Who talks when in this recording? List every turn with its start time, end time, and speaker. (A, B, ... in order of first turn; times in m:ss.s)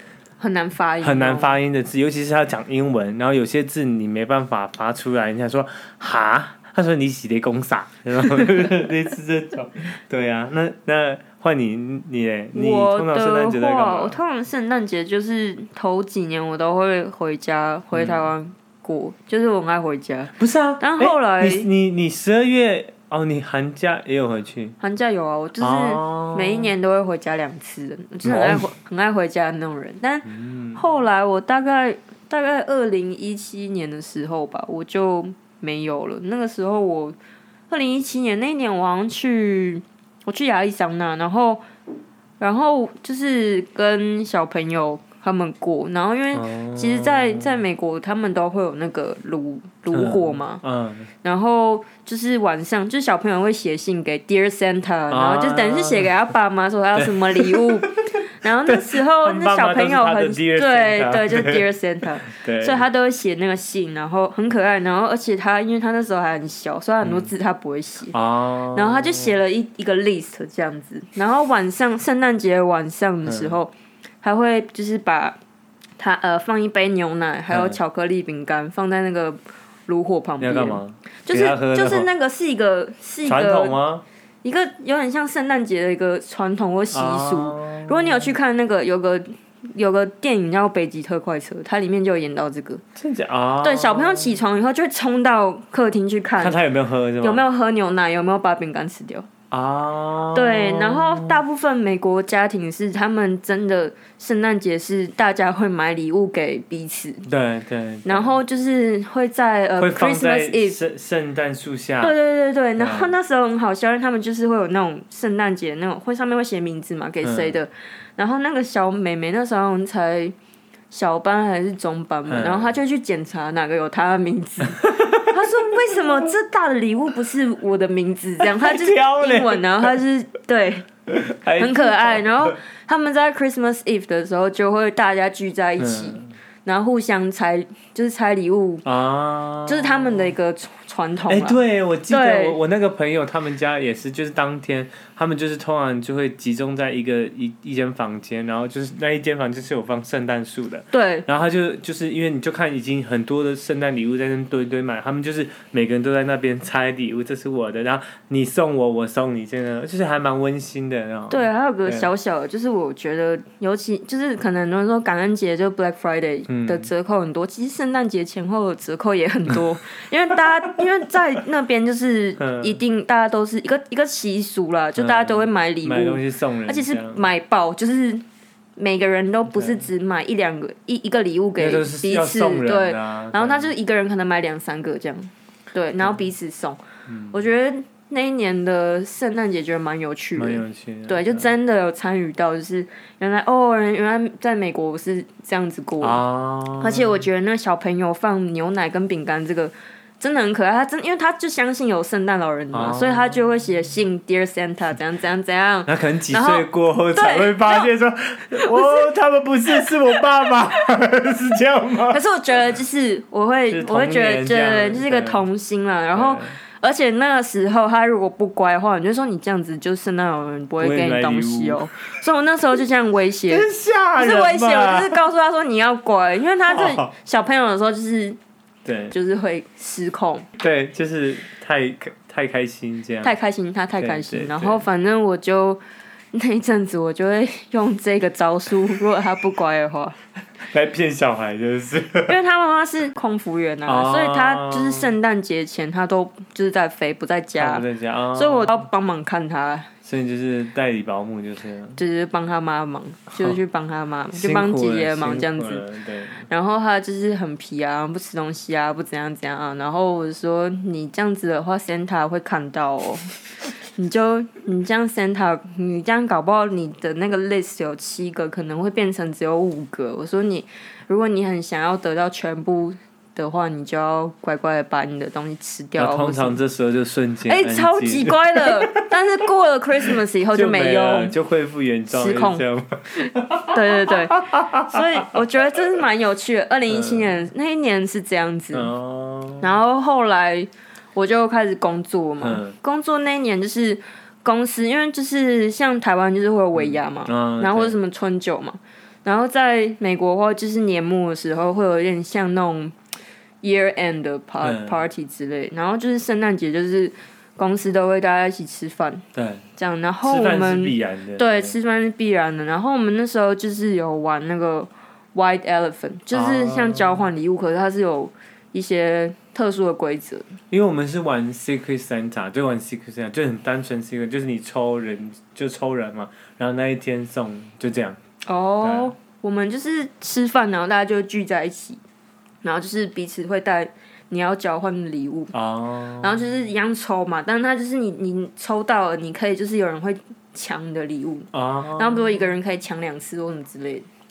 0:00.4-0:01.5 A
0:01.0-0:14.2 B
0:12.5-0:21.7 A
0:17.9-0:18.3 B
0:20.4-0:24.8 B
0:24.8-0:37.2 A
0:25.6-0:26.7 B
0:28.2-0:28.6 B
0:30.2-0:30.8 B
0:37.7-0:41.6 A
0:42.4-0:50.6 A
0:46.3-0:47.7 B
0:49.9-0:51.1 B
0:51.2-1:08.2 A
0:55.1-0:56.1 B
0:57.0-0:58.0 B
0:58.6-1:01.6 B
1:02.3-1:02.8 B
1:07.0-1:07.3 B
1:08.1-1:09.4 B
1:08.7-1:15.4 A
1:13.3-1:13.6 B
1:16.0-1:23.8 A
1:17.5-1:17.8 B
1:20.4-1:22.1 B
1:23.2-1:24.0 B
1:24.4-1:32.8 A
1:26.9-1:28.3 B
1:33.0-1:34.4 B
1:33.6-1:36.6 A
1:36.4-1:37.5 B
1:37.2-1:39.3 A
1:39.5-1:41.4 B
1:40.3-1:47.3 A
1:47.3-1:48.4 B
1:48.0-1:50.8 A
1:49.8-1:52.2 B
1:52.0-2:00.4 A
1:52.8-1:53.1 B
1:57.2-1:57.6 B
2:00.9-2:10.9 A
2:02.3-2:02.8 B
2:04.8-2:05.3 B
2:08.4-2:09.9 B
2:11.1-2:12.5 B
2:11.6-2:18.9 A
2:15.8-2:16.3 B
2:18.8-2:20.4 B
2:19.7-2:22.6 A
2:21.3-2:42.1 B
2:30.9-2:31.3 A
2:41.3-2:58.2 A
2:46.5-2:46.9 B
2:52.4-2:52.8 B
2:55.0-2:57.2 B
2:58.8-3:16.2 A
2:59.5-2:59.9 B
3:01.6-3:03.7 B
3:07.1-3:07.4 B
3:10.4-3:11.5 B
3:16.0-3:17.2 B
3:16.8-3:27.9 A
3:22.7-3:23.4 B
3:25.9-3:32.2 B
3:28.6-3:29.1 A
3:29.7-3:30.5 A
3:32.1-3:48.4 A
3:33.7-3:35.4 B
3:36.1-3:36.6 B
3:40.8-3:41.8 B
3:43.5-3:45.2 B
3:46.7-3:47.1 B
3:48.8-3:49.2 B
3:49.1-3:50.5 A
3:50.6-3:53.4 B
3:53.2-3:55.8 A
3:54.0-3:54.8 B
3:56.3-4:00.2 A
4:00.6-4:02.4 B
4:02.3-4:09.9 A
4:03.9-4:05.1 B
4:07.6-4:08.8 B
4:10.0-4:12.0 B
4:12.0-4:15.8 A
4:14.3-4:16.5 B
4:16.4-4:23.2 A
4:24.0-4:36.6 A
4:36.0-4:39.1 B
4:37.5-4:41.4 A
4:40.0-4:45.0 B
4:42.1-4:42.6 A
4:43.6-4:48.9 A
4:46.9-4:47.4 B
4:48.7-4:49.8 B
4:49.6-5:02.9 A
4:52.4-4:52.8 B
4:56.8-4:58.0 B
5:03.6-5:09.2 A
5:04.6-5:05.0 B
5:09.3-5:09.7 B
5:09.8-5:20.5 A
5:10.2-5:11.8 B
5:16.3-5:17.3 B
5:20.7-5:28.2 B
5:28.4-5:32.0 A
5:28.8-5:29.1 B
5:32.6-5:35.5 A
5:35.5-5:36.5 B
5:36.2-5:44.1 A
5:41.5-5:42.5 B